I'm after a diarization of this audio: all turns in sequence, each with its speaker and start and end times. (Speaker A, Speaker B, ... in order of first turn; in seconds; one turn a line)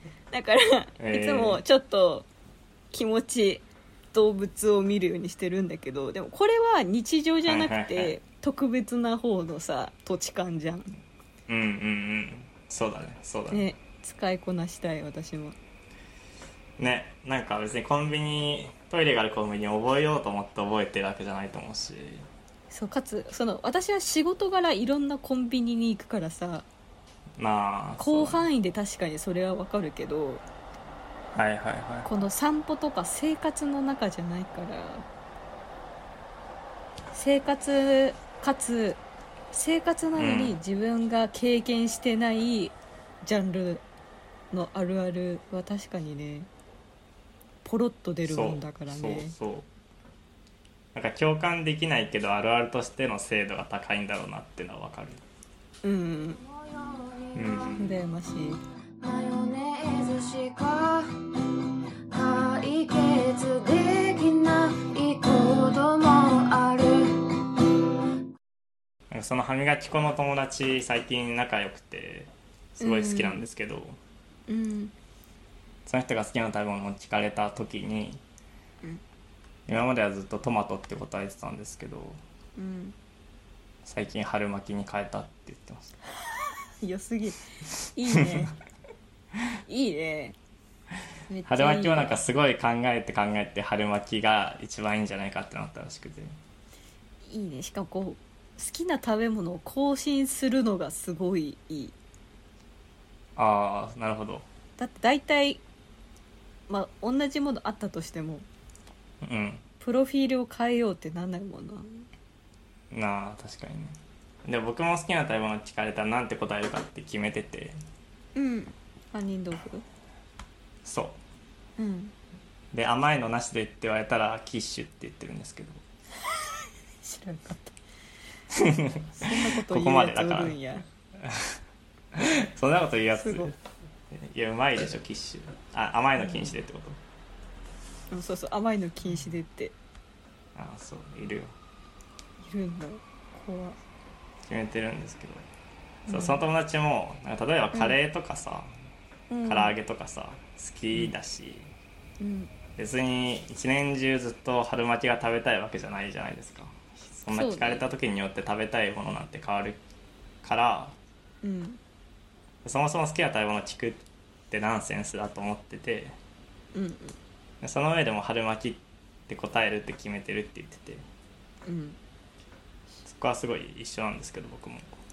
Speaker A: 0.3-2.3
Speaker B: 1.0-1.6
Speaker A: 2.9-10.9
Speaker B: 7.5-8.2
Speaker B: 11.5-13.7
Speaker A: 13.5-15.6
Speaker B: 16.8-22.3
Speaker A: 22.7-26.7
Speaker B: 27.4-28.4
Speaker A: 28.0-30.4
Speaker B: 31.4-32.1
Speaker A: 32.0-35.0
Speaker A: 37.1-39.0
Speaker A: 39.5-43.8
Speaker B: 40.2-40.6
Speaker A: 44.5-46.5
Speaker A: 47.6-49.3
Speaker B: 48.3-49.7
Speaker B: 50.9-55.2
Speaker A: 55.8-56.4
Speaker C: 56.4-57.8
Speaker B: 57.4-57.9
Speaker A: 57.8-58.6
Speaker C: 59.0-61.2
Speaker C: 62.1-67.5
Speaker B: 69.1-74.0
Speaker A: 72.8-73.5
Speaker A: 74.5-74.9
Speaker B: 75.9-78.2
Speaker B: 79.7-82.2
Speaker A: 82.6-83.0
Speaker B: 83.8-86.0
Speaker A: 86.8-88.5
Speaker A: 89.7-90.4
Speaker A: 91.3-92.2
Speaker B: 91.5-96.4
Speaker A: 97.3-102.0
Speaker B: 103.4-104.5
Speaker A: 104.8-105.6
Speaker A: 106.7-108.5
Speaker B: 109.2-109.7
Speaker A: 109.8-112.0
Speaker B: 112.9-117.8
Speaker A: 118.3-119.8
Speaker B: 120.8-121.2
Speaker A: 121.8-122.1
Speaker B: 122.7-125.8
Speaker A: 127.0-127.8
Speaker B: 128.5-130.6
Speaker A: 129.2-130.8
Speaker B: 131.2-131.6
Speaker B: 132.1-133.6
Speaker A: 133.2-133.5
Speaker B: 134.1-137.0
Speaker A: 136.2-136.5
Speaker A: 138.1-139.8
Speaker B: 140.6-141.5
Speaker A: 142.4-143.8
Speaker B: 144.4-145.4
Speaker A: 146.1-146.4
Speaker B: 146.1-148.7
Speaker A: 149.3-149.8
Speaker B: 149.4-151.7
Speaker A: 152.2-152.5
Speaker B: 152.8-159.8
Speaker A: 157.3-157.9
Speaker B: 160.4-161.0
Speaker A: 161.4-161.8
Speaker B: 162.7-166.2
Speaker A: 166.7-167.2
Speaker B: 167.6-171.0
Speaker A: 171.7-172.0
Speaker B: 173.0-174.9